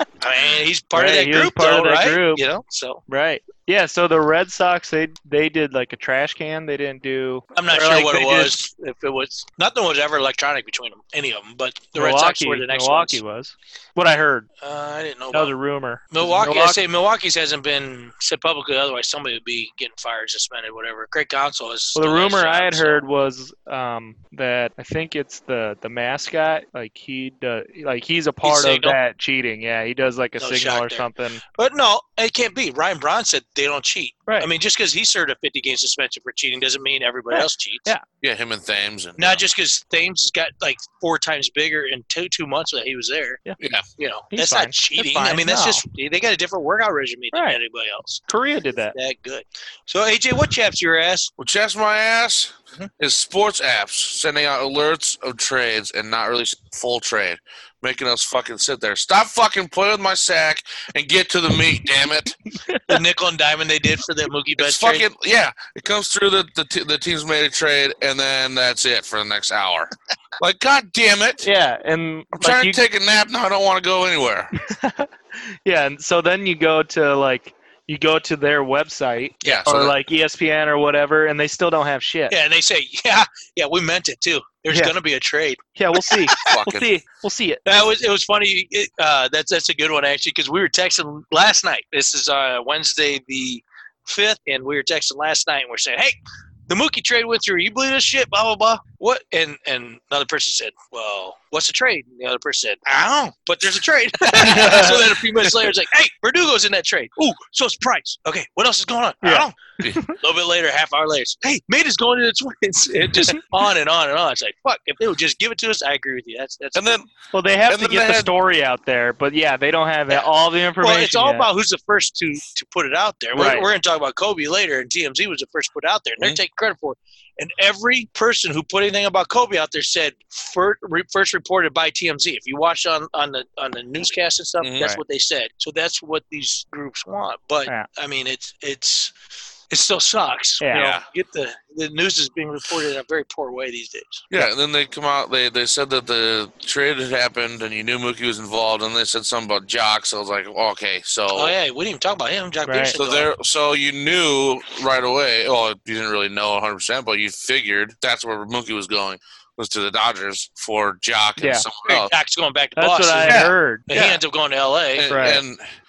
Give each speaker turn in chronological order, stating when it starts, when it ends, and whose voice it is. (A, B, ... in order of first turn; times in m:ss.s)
0:00.2-0:03.0 A
0:00.9-0:02.4 B
0:03.1-0:08.6 B
0:07.6-0:13.2 A
0:12.0-0:14.5 B
0:14.6-0:15.5 A
0:15.3-0:16.8 B
0:16.1-0:23.0 A
0:22.0-0:31.4 B
0:28.4-0:29.0 A
0:30.4-0:37.9 A
0:37.3-0:38.0 B
0:38.2-0:39.4 C
0:39.2-0:43.4 A
0:44.0-0:48.2 A
0:44.3-0:45.8 B
0:47.3-0:47.6 B
0:48.3-0:49.0 B
0:48.9-0:51.3 A
0:51.4-1:02.4 C
1:02.9-1:05.1 A
1:04.6-1:11.5 C
1:11.4-1:12.8 B
1:12.3-1:14.5 C
1:14.6-1:15.1 B
1:15.7-1:22.4 B
1:19.4-1:19.9 C
1:22.3-1:26.5 A
1:25.8-1:27.8 B
1:26.4-1:26.9 C
1:27.7-1:49.6 A
1:44.3-1:45.1 B
1:49.2-1:50.1 B
1:50.1-1:57.0 A
1:56.8-1:57.1 C
1:57.3-2:01.5 B
1:57.7-1:58.3 C
2:00.8-2:19.1 A
2:03.3-2:03.7 B
2:14.6-2:14.9 C
2:19.7-2:24.3 A
2:20.6-2:20.9 B
2:20.7-2:21.0 C
2:24.3-2:31.6 C
2:31.3-2:33.3 A
2:32.7-2:33.0 B
2:33.0-2:42.1 C
2:41.4-2:41.7 B
2:41.9-2:45.2 A
2:42.8-2:43.9 B
2:43.3-2:44.2 C
2:45.0-2:45.7 C
2:45.1-2:45.4 B